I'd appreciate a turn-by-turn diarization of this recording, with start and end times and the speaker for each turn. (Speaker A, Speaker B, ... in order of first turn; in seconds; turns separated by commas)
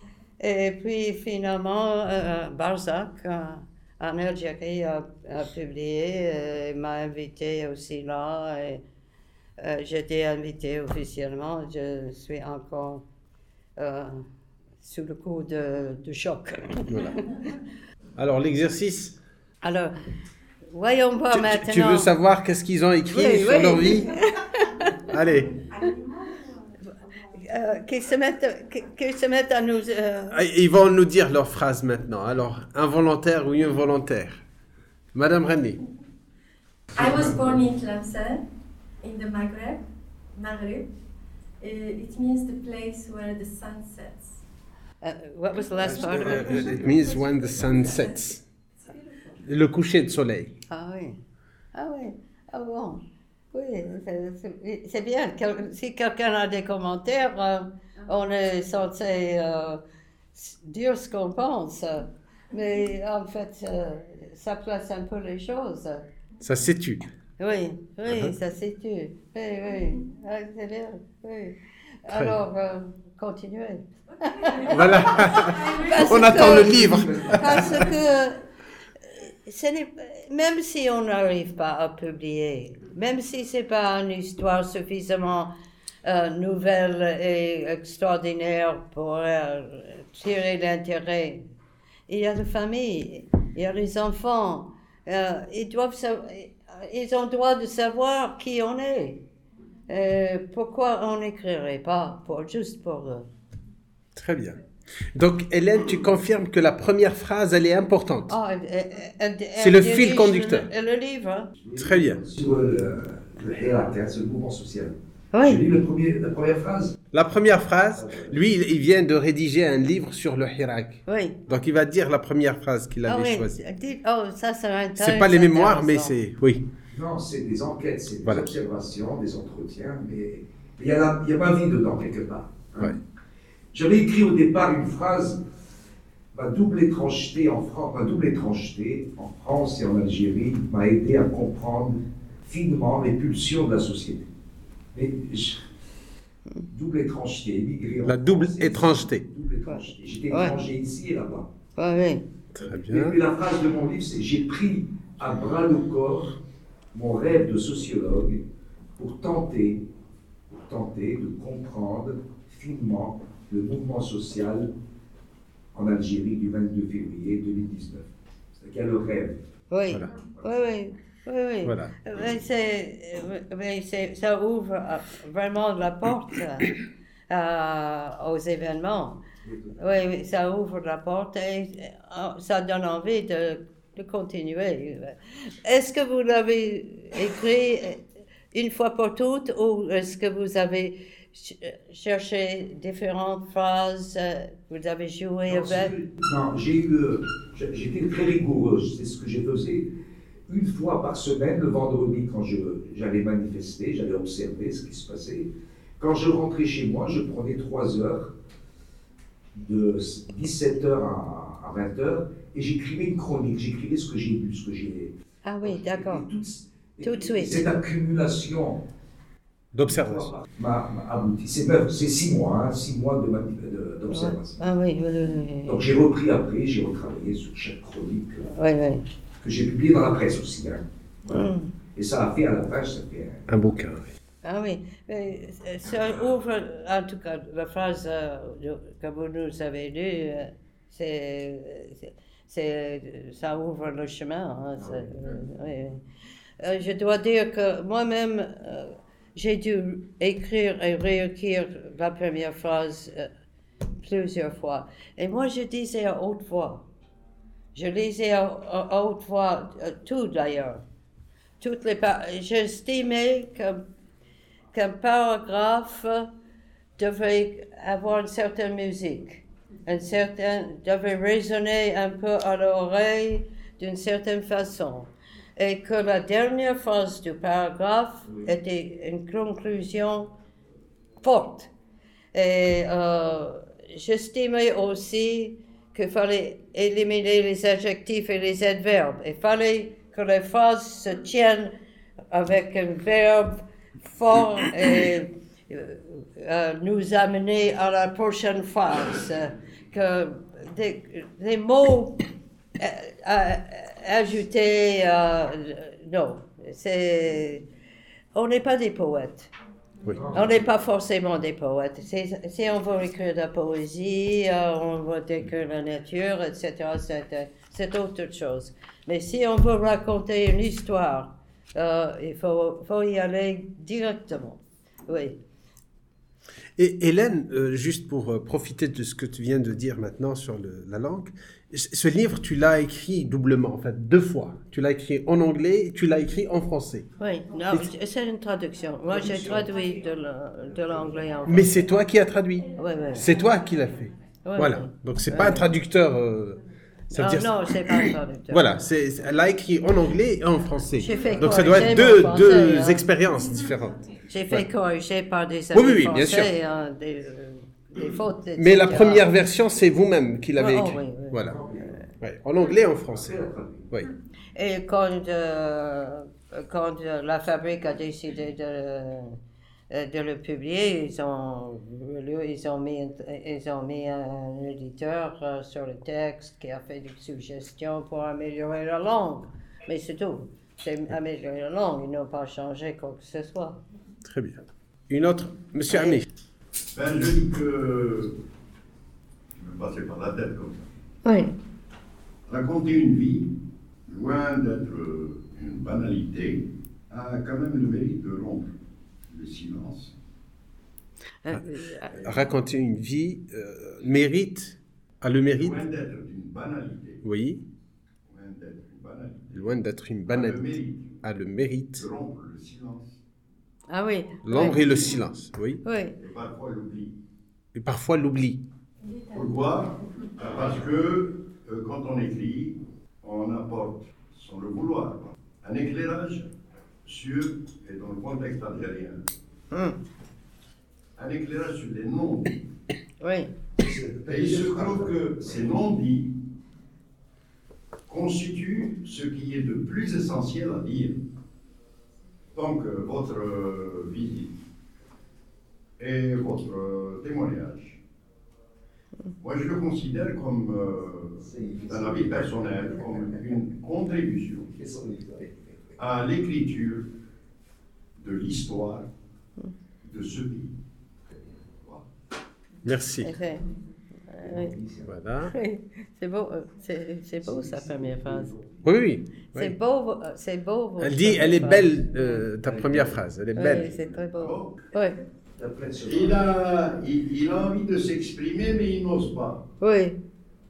Speaker A: 0.4-8.8, Speaker A: 9.6-13.0, Speaker A: 13.8-14.3, Speaker A: 14.8-17.5, Speaker B: 16.9-17.1, Speaker B: 18.2-19.2, Speaker A: 19.6-19.9, Speaker A: 20.7-22.1, Speaker B: 21.3-24.1, Speaker A: 23.1-25.0, Speaker B: 25.1-25.6, Speaker A: 27.4-30.4, Speaker B: 30.3-34.4, Speaker B: 35.1-35.8, Speaker C: 37.0-38.4, Speaker C: 39.0-40.9, Speaker C: 41.6-44.4, Speaker A: 45.0-46.7, Speaker B: 46.0-48.4, Speaker D: 46.2-47.1, Speaker B: 49.4-50.5, Speaker A: 50.7-51.2, Speaker A: 51.7-53.0, Speaker A: 53.5-59.8, Speaker A: 60.4-66.1, Speaker B: 66.4-67.0, Speaker A: 67.4-78.4, Speaker B: 68.0-68.3, Speaker B: 72.1-72.3, Speaker B: 74.7-77.9, Speaker D: 76.4-77.8, Speaker A: 79.1-85.5, Speaker A: 86.0-91.4, Speaker A: 92.1-99.2, Speaker A: 99.9-103.3, Speaker B: 104.2-104.6, Speaker B: 105.1-108.3, Speaker A: 108.3-111.5, Speaker B: 109.6-110.7, Speaker D: 111.6-117.0, Speaker B: 111.8-112.2, Speaker A: 115.3-115.6, Speaker B: 117.1-123.6, Speaker D: 118.0-118.3, Speaker A: 121.1-121.4, Speaker A: 123.1-126.2, Speaker B: 125.0-126.7, Speaker D: 126.9-133.0, Speaker D: 133.7-135.4, Speaker D: 136.3-144.3, Speaker D: 144.9-145.6, Speaker D: 146.7-151.5, Speaker B: 148.0-149.2, Speaker A: 149.7-150.6, Speaker A: 151.8-152.2, Speaker B: 152.6-153.2, Speaker D: 152.7-156.4, Speaker D: 156.9-158.4, Speaker D: 159.0-159.8, Speaker D: 160.6-164.7, Speaker D: 165.7-168.1, Speaker D: 168.6-169.4, Speaker A: 169.7-176.7, Speaker B: 171.7-171.9, Speaker A: 177.3-179.2, Speaker D: 179.4-179.8, Speaker A: 179.8-188.0, Speaker A: 188.5-195.9, Speaker D: 195.5-199.9, Speaker D: 200.5-208.3, Speaker D: 209.6-215.1, Speaker A: 215.4-216.3, Speaker D: 215.6-218.8, Speaker A: 217.0-217.7, Speaker B: 219.7-220.3, Speaker D: 219.9-224.6, Speaker A: 224.1-225.8, Speaker D: 225.7-228.5, Speaker A: 228.5-229.0, Speaker D: 229.4-233.4, Speaker A: 231.3-231.7, Speaker B: 233.5-234.1, Speaker A: 234.4-246.0, Speaker A: 246.6-253.3, Speaker A: 254.0-256.9, Speaker A: 257.8-260.8, Speaker A: 261.6-263.8, Speaker A: 264.7-266.3, Speaker A: 267.0-280.3, Speaker A: 281.2-281.7, Speaker A: 282.3-291.7, Speaker A: 292.3-302.2, Speaker A: 302.8-307.6, Speaker A: 308.3-309.5, Speaker D: 310.1-310.6, Speaker A: 310.3-325.4, Speaker B: 326.8-337.1, Speaker A: 337.2-341.7, Speaker D: 339.1-339.7, Speaker B: 341.5-346.6, Speaker A: 342.8-343.3, Speaker A: 344.4-345.7, Speaker B: 347.1-354.6, Speaker A: 347.1-348.8, Speaker A: 351.0-353.1, Speaker A: 354.3-359.3, Speaker B: 355.7-356.5, Speaker B: 358.6-361.6, Speaker A: 360.6-362.0, Speaker D: 361.4-362.0, Speaker B: 362.2-364.1, Speaker D: 363.1-363.9, Speaker A: 364.6-369.4, Speaker A: 369.9-383.8, Speaker B: 384.2-386.3, Speaker A: 385.9-386.2, Speaker E: 386.9-388.4, Speaker E: 389.6-390.8, Speaker A: 391.2-391.5, Speaker E: 392.5-393.5, Speaker E: 394.1-398.7, Speaker E: 399.3-400.1, Speaker A: 401.4-402.5, Speaker B: 402.2-405.8, Speaker E: 405.6-407.2, Speaker B: 407.2-407.6, Speaker E: 408.3-409.7, Speaker B: 409.5-412.1, Speaker E: 410.3-411.2, Speaker E: 412.0-413.2, Speaker A: 413.9-415.1, Speaker B: 414.4-415.8, Speaker A: 415.8-416.1, Speaker E: 416.2-417.1, Speaker B: 417.8-418.6, Speaker E: 419.3-426.5, Speaker E: 427.1-429.2, Speaker A: 429.7-430.0, Speaker E: 431.2-432.6, Speaker A: 433.2-433.5, Speaker D: 433.8-435.7, Speaker E: 434.3-436.3, Speaker E: 438.1-441.2, Speaker E: 442.6-444.5, Speaker E: 446.0-448.0, Speaker E: 449.4-454.7, Speaker D: 451.4-453.6, Speaker D: 454.7-455.8, Speaker E: 456.0-457.1, Speaker E: 458.2-459.1, Speaker E: 460.0-460.7, Speaker B: 462.8-463.3, Speaker A: 463.2-463.6, Speaker A: 464.3-464.8, Speaker D: 464.4-465.1, Speaker B: 465.1-465.6, Speaker A: 465.4-468.5, Speaker D: 467.4-468.8, Speaker B: 468.8-469.7, Speaker A: 469.6-472.4, Speaker B: 471.0-473.9, Speaker D: 472.6-473.2, Speaker A: 473.6-475.2, Speaker E: 474.3-474.7, Speaker D: 475.6-476.4, Speaker E: 476.1-479.6, Speaker A: 479.8-480.2